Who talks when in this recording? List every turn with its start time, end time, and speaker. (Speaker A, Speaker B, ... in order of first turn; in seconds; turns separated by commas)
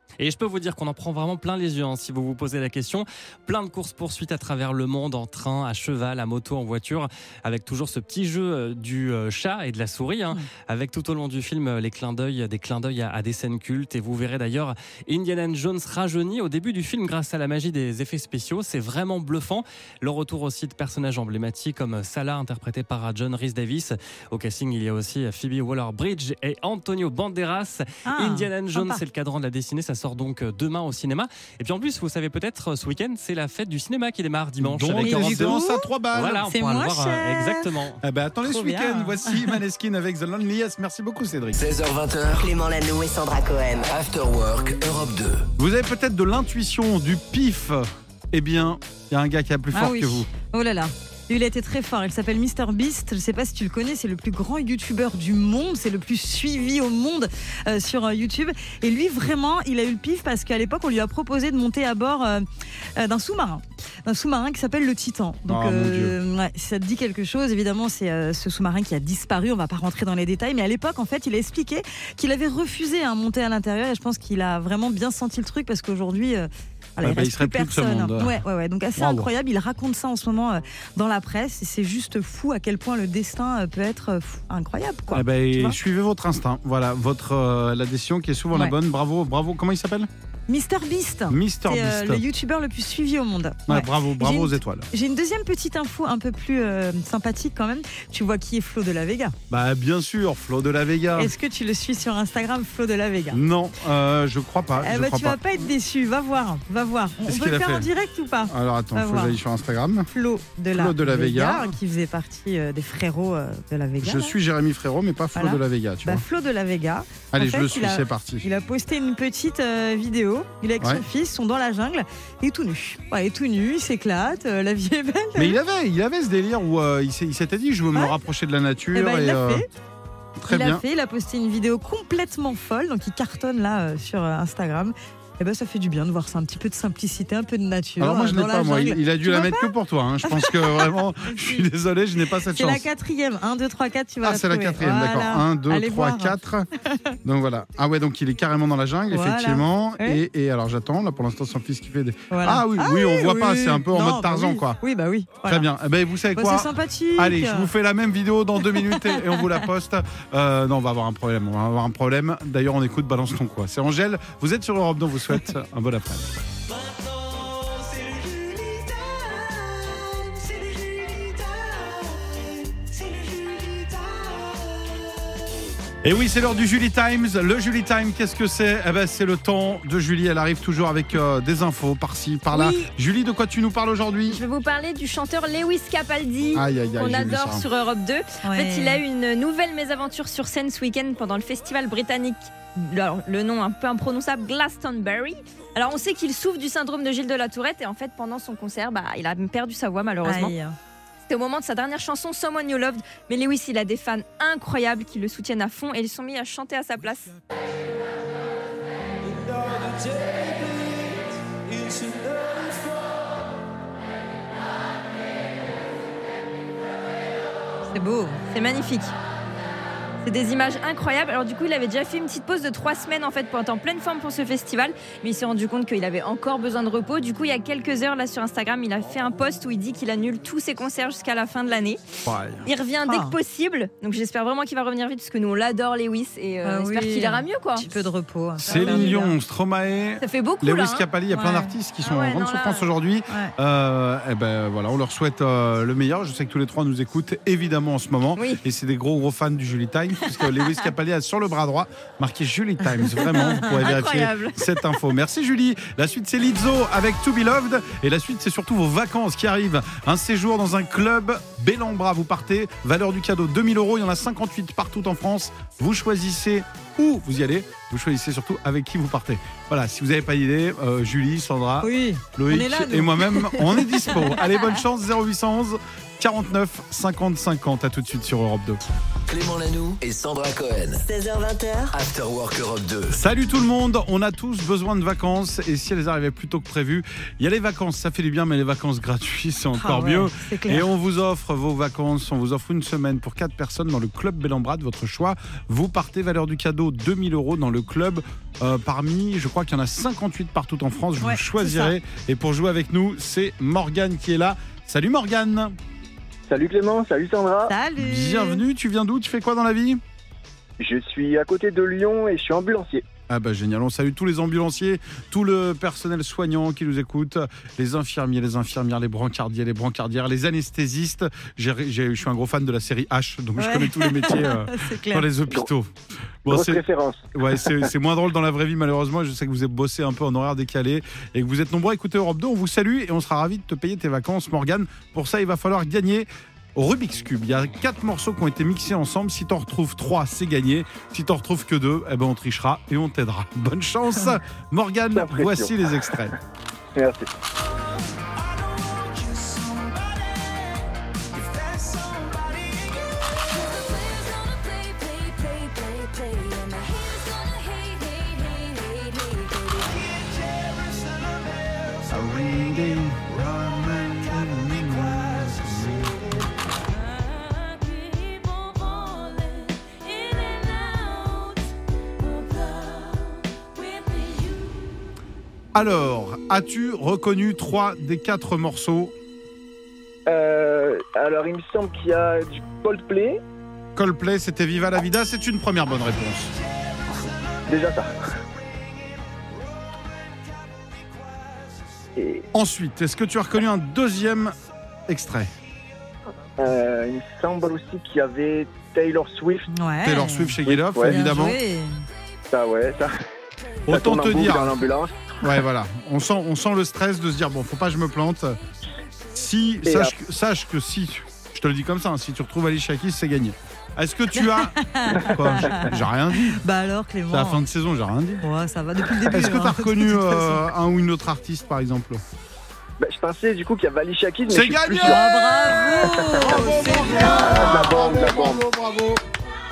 Speaker A: 0.2-38.0, Speaker B: 28.1-29.0, Speaker C: 34.6-36.4, Speaker B: 35.0-35.9, Speaker B: 36.5-37.7, Speaker C: 38.0-41.6, Speaker B: 38.4-39.6, Speaker D: 41.6-42.5, Speaker E: 42.4-43.9, Speaker D: 43.9-45.5, Speaker C: 45.6-50.3, Speaker B: 49.7-62.4, Speaker B: 63.0-85.8, Speaker C: 65.5-66.2, Speaker C: 77.0-78.4, Speaker C: 79.0-79.3, Speaker C: 85.1-90.1, Speaker B: 90.5-99.3, Speaker C: 91.3-92.2, Speaker C: 93.7-94.9, Speaker C: 99.5-101.3, Speaker B: 101.2-103.4, Speaker C: 103.3-105.4, Speaker B: 104.8-109.4, Speaker C: 107.2-107.9, Speaker C: 108.5-110.1, Speaker B: 110.1-114.4, Speaker C: 110.7-111.7, Speaker C: 114.0-116.2, Speaker B: 115.3-125.5, Speaker C: 117.3-118.5, Speaker C: 125.4-129.6, Speaker B: 128.9-129.7, Speaker C: 130.4-130.8, Speaker B: 130.5-139.7, Speaker C: 138.0-142.8, Speaker B: 140.2-141.7, Speaker B: 142.5-147.1, Speaker C: 144.2-146.7, Speaker C: 147.2-154.8, Speaker B: 149.1-150.2, Speaker B: 152.3-155.7, Speaker C: 155.4-166.3, Speaker B: 156.3-157.7, Speaker B: 158.7-159.6, Speaker C: 176.0-184.4, Speaker F: 182.5-182.9, Speaker F: 184.3-200.5, Speaker C: 186.5-187.6, Speaker B: 188.4-189.0, Speaker B: 200.2-200.8, Speaker F: 201.3-207.3, Speaker B: 217.9-218.4, Speaker F: 218.5-219.1, Speaker F: 220.2-232.0, Speaker C: 232.2-232.7, Speaker F: 232.6-237.9, Speaker B: 233.0-233.4, Speaker B: 236.6-239.3, Speaker C: 238.6-278.8, Speaker F: 238.7-239.1, Speaker F: 240.2-241.1, Speaker B: 241.3-241.7, Speaker F: 242.0-242.9, Speaker F: 248.4-248.6, Speaker F: 253.5-254.6, Speaker B: 271.8-274.4, Speaker D: 279.3-281.0, Speaker E: 281.0-281.9, Speaker D: 281.9-283.2, Speaker C: 283.1-305.8, Speaker B: 289.8-290.9, Speaker B: 301.2-301.9, Speaker G: 306.5-307.7, Speaker B: 307.7-308.6, Speaker C: 308.0-310.0, Speaker G: 310.8-313.0, Speaker C: 313.3-325.9, Speaker B: 323.6-325.3, Speaker C: 326.4-326.8, Speaker G: 326.5-327.9, Speaker C: 327.3-346.4, Speaker G: 345.1-346.3, Speaker G: 346.9-347.3, Speaker C: 362.0-366.5, Speaker C: 375.7-379.1, Speaker G: 380.3-383.4, Speaker C: 383.9-386.5, Speaker G: 387.7-388.1, Speaker G: 392.1-392.4, Speaker C: 392.5-394.6, Speaker C: 395.1-395.5, Speaker G: 396.6-399.7, Speaker B: 399.7-402.0, Speaker C: 400.0-401.6, Speaker G: 400.6-401.2, Speaker G: 402.5-403.1, Speaker C: 403.9-404.7, Speaker G: 403.9-405.4, Speaker C: 405.4-408.6, Speaker C: 409.3-416.6, Speaker G: 409.9-410.1, Speaker B: 414.3-417.6, Speaker C: 417.3-418.4, Speaker B: 418.4-420.7, Speaker C: 419.2-422.2, Speaker G: 423.0-425.2, Speaker C: 424.5-429.2, Speaker B: 425.0-427.8, Speaker G: 426.0-428.6